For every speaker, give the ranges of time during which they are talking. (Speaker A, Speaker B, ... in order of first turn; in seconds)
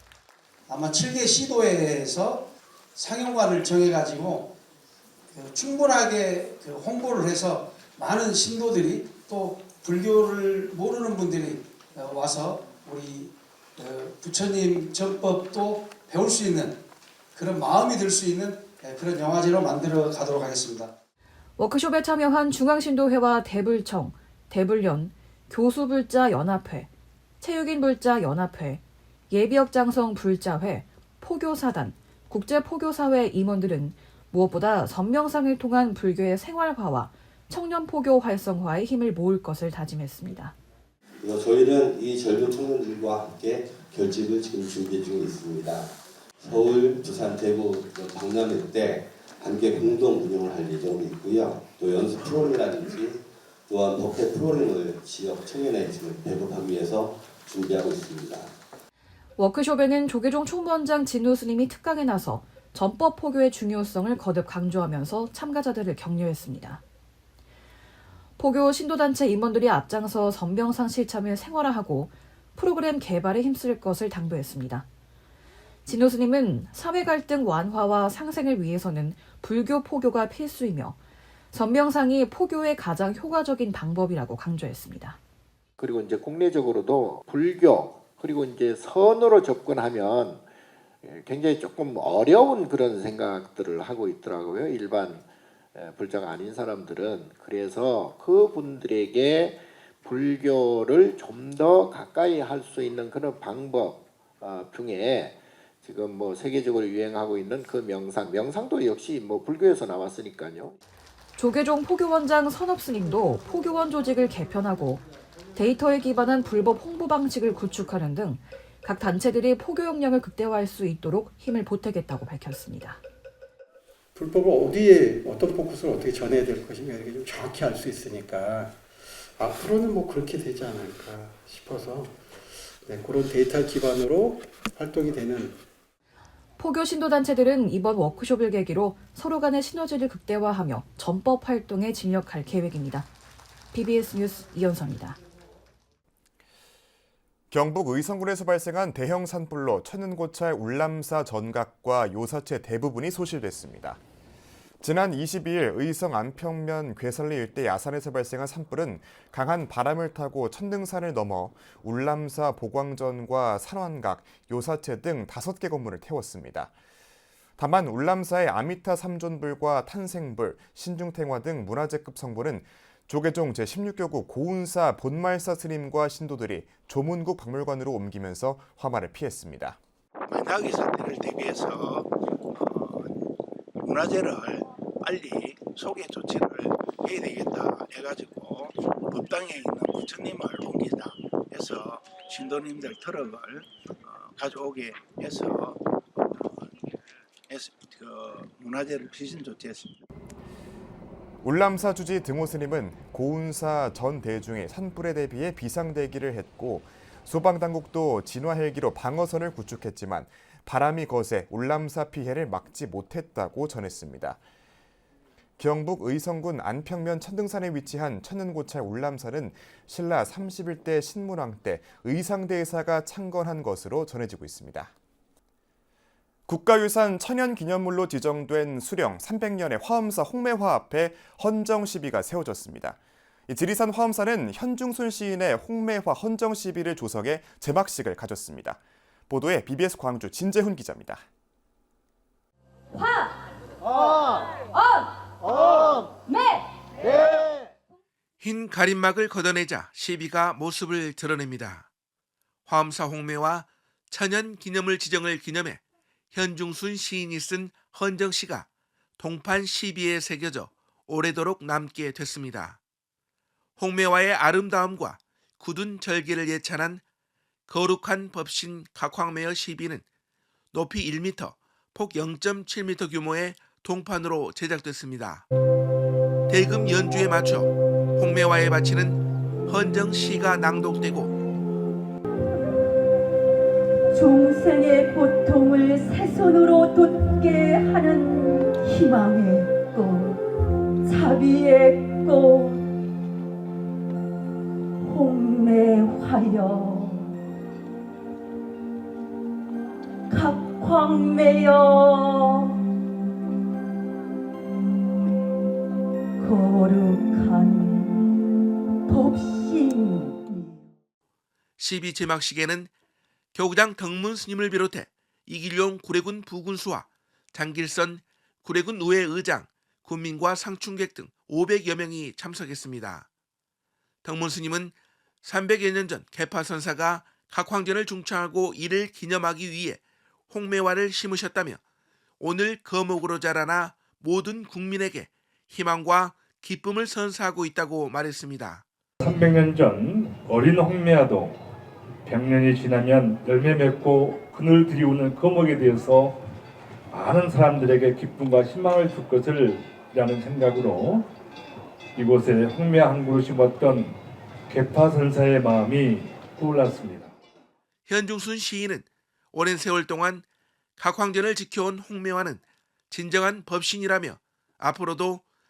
Speaker A: 0.7-4.5, 5.3-16.8, 17.4-20.9
Speaker B: 21.6-26.9, 27.4-40.5, 59.4-66.8, 68.4-74.8, 75.8-81.0, 81.5-85.2, 111.3-115.0, 115.5-123.0, 136.6-143.1, 143.7-145.2
Speaker C: 41.2-58.5
Speaker D: 85.8-90.5, 91.0-110.8
Speaker E: 124.1-128.8, 129.4-132.2, 132.8-135.6
Speaker F: 147.5-154.0, 154.8-166.7, 167.6-179.8, 201.4-214.4, 215.6-224.9, 226.5-241.2
Speaker G: 180.3-183.0, 183.8-195.8, 196.3-196.7, 197.5-200.0
Speaker H: 248.4-251.9, 252.7-255.8, 256.3-258.6, 259.2-262.8, 263.8-267.0, 267.7-270.0, 270.7-275.4, 276.5-281.3, 311.8-312.9, 313.5-323.3, 324.2-324.9, 325.4-331.8, 332.4-338.8, 358.1-360.4, 361.0-365.4
Speaker I: 284.1-290.4, 291.0-292.9, 295.0-297.3, 300.3-302.8, 306.4-308.2, 309.1-310.8
Speaker J: 339.2-341.6, 342.2-346.4, 347.1-351.3, 352.1-354.2, 354.7-357.3